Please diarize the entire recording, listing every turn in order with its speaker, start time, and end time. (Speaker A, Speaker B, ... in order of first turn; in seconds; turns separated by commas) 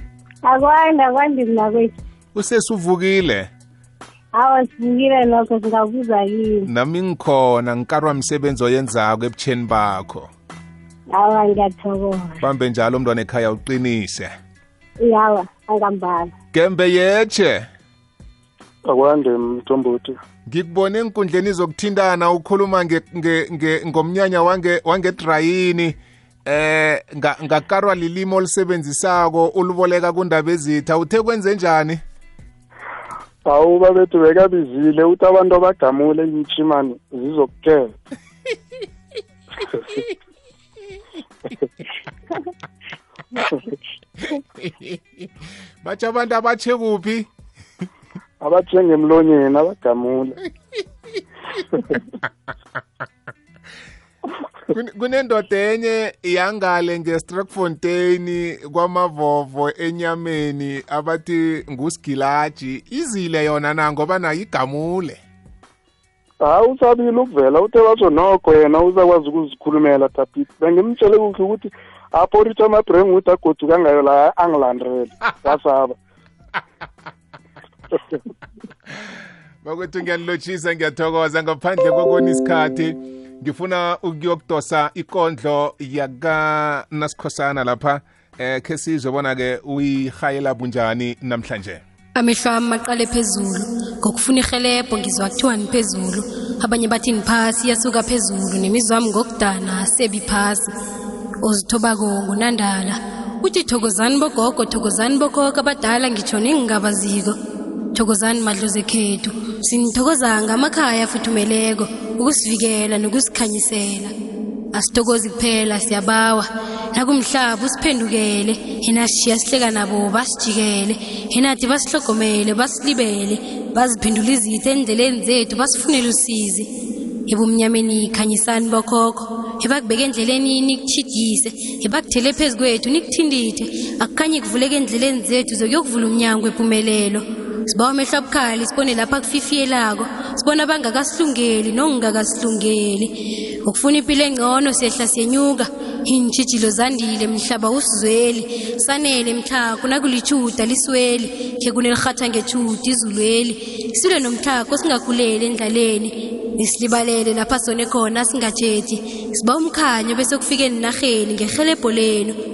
Speaker A: 0.5-1.9, Speaker B: 2.4-3.5, Speaker A: 4.4-6.6, Speaker B: 6.6-10.3, Speaker A: 11.2-12.3, Speaker B: 12.4-14.3, Speaker A: 15.0-16.3, Speaker B: 16.5-17.7, Speaker C: 18.9-20.2, Speaker B: 20.5-32.0, Speaker C: 33.5-37.9, Speaker B: 39.9-40.1, Speaker B: 44.2-45.3, Speaker B: 45.8-47.3, Speaker C: 48.4-50.3, Speaker B: 50.4-51.2, Speaker B: 54.7-65.2, Speaker C: 66.4-76.0, Speaker B: 79.6-91.8, Speaker D: 92.2-100.7, Speaker D: 101.4-107.4, Speaker D: 107.9-114.1, Speaker D: 114.7-126.7, Speaker D: 127.3-143.1, Speaker D: 143.7-162.3